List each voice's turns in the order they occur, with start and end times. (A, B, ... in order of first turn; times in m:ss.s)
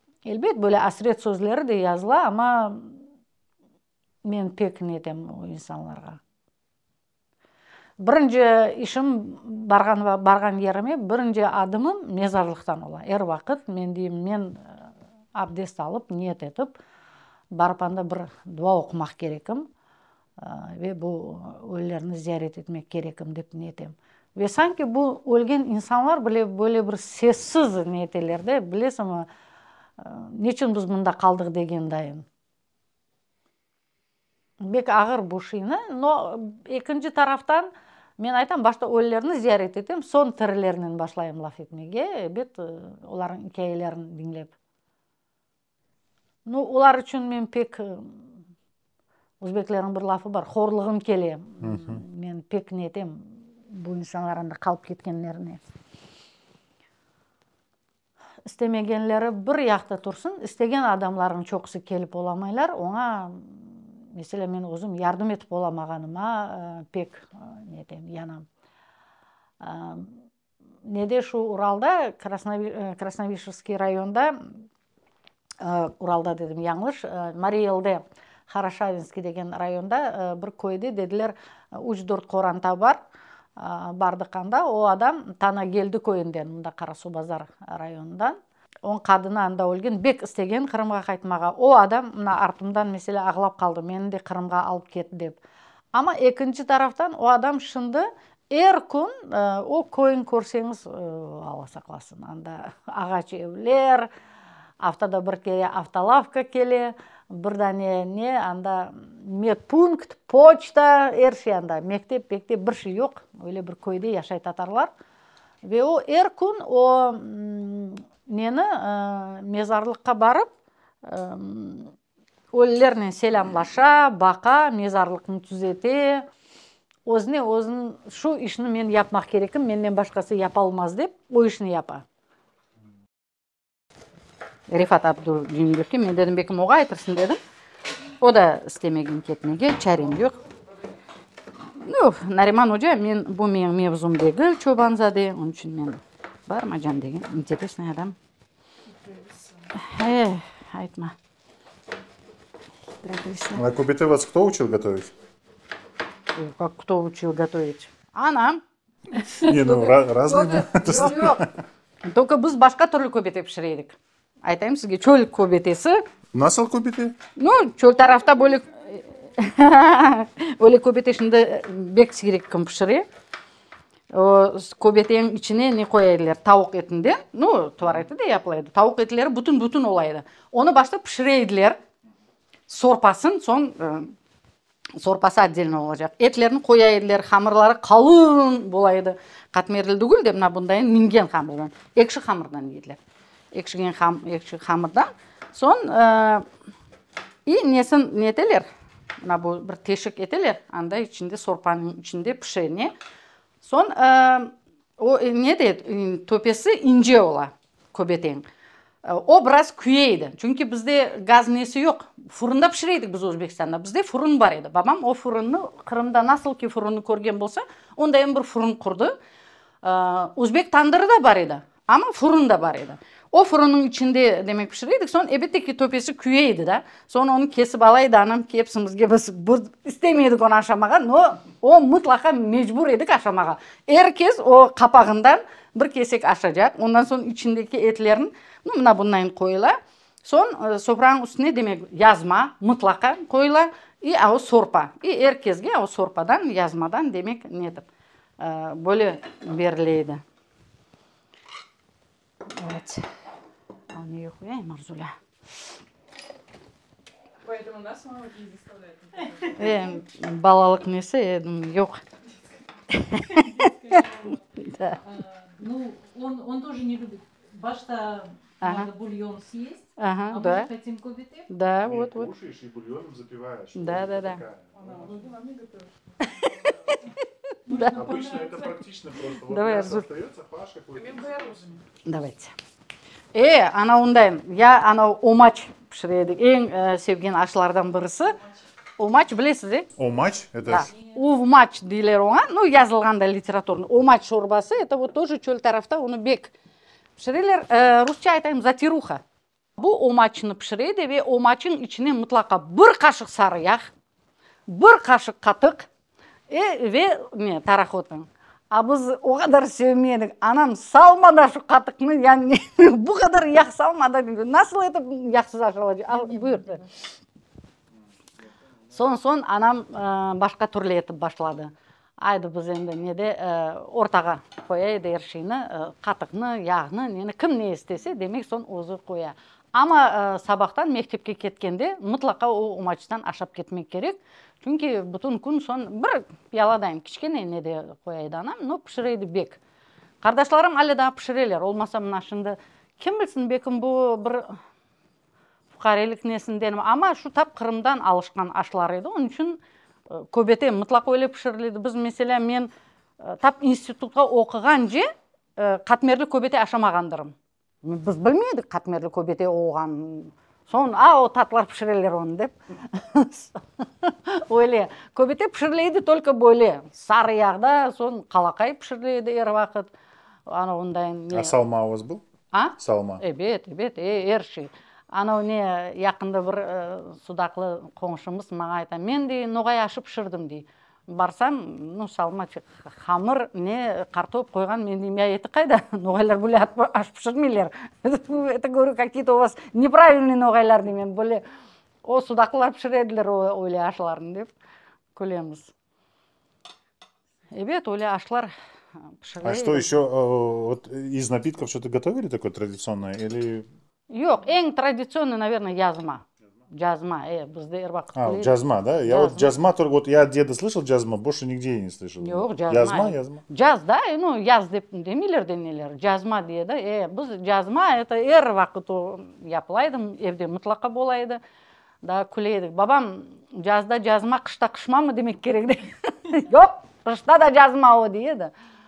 0:00.3-0:02.9 A
0:04.2-0:06.2 A
0:08.0-0:16.8 A
0:17.5-0:19.6 A
0:20.4-0:29.3 A
0:30.0-0:32.2 A
0:34.6-0:44.5 A
0:46.4-0:48.3 A
0:49.4-0:55.6 A
0:51.6-0:52.0 B
0:58.4-1:08.4 A
1:09.6-1:10.2 A
1:10.8-1:14.5 A
1:15.6-1:23.0 A
1:23.6-1:35.4 A
1:35.9-1:44.1 A
1:44.8-1:54.9 A
1:55.6-2:00.5 A
2:01.0-2:01.9 A
2:02.5-2:06.2 A
2:07.1-2:12.0 A
2:14.7-2:17.4 A
2:18.2-2:20.4 A
2:21.8-2:28.2 A
2:29.7-2:31.1 A
2:33.0-2:33.6 A
2:33.5-2:35.1 B
2:36.3-2:38.6 A
2:39.1-2:41.5 A
2:39.4-2:41.6 B
2:42.0-2:46.0 A
2:46.3-2:47.2 B
2:47.4-2:53.0 A
2:54.1-3:01.8 A
3:02.7-3:04.1 A
3:05.0-3:13.0 A
3:13.5-3:16.4 A
3:17.4-3:18.7 A
3:19.2-3:22.9 A
3:23.6-3:28.4 A
3:29.0-3:39.2 A
3:39.8-4:07.8 A
4:08.4-4:10.2 A
4:12.5-4:13.1 A
4:13.9-4:15.1 A
4:17.4-4:19.9 C
4:19.4-4:22.0 A
4:22.9-4:25.0 A
4:23.3-4:24.4 C
4:25.1-4:31.5 C
4:28.6-4:28.9 A
4:30.0-4:30.7 A
4:31.5-4:32.3 A
4:31.8-4:35.2 B
4:33.8-4:34.4 A
4:34.8-4:35.9 C
4:36.2-4:38.0 A
4:37.7-4:38.7 C
4:37.8-4:41.5 B
4:39.4-4:40.0 A
4:41.1-4:41.7 C
4:42.0-4:42.5 A
4:43.3-4:48.4 A
4:49.0-4:49.9 A
4:50.0-4:50.9 B
4:50.6-4:56.5 A
4:57.2-4:59.2 A
4:59.8-5:03.9 A
5:04.7-5:05.9 A
5:06.5-5:16.8 A
5:18.9-5:39.6 A
5:40.2-5:44.6 A
5:45.7-5:49.6 A
5:50.1-5:52.7 A
5:53.2-6:09.9 A
6:10.5-6:11.5 A
6:11.3-6:12.2 B
6:12.5-6:31.4 A
6:12.8-6:13.2 B
6:32.0-6:34.5 A
6:35.1-6:35.7 A
6:37.5-6:38.5 A
6:39.2-6:39.9 A
6:39.4-6:43.7 B
6:44.1-6:48.5 A
6:48.1-6:53.4 B
6:49.0-6:49.5 A
6:52.2-7:01.4 A
7:02.0-7:08.5 A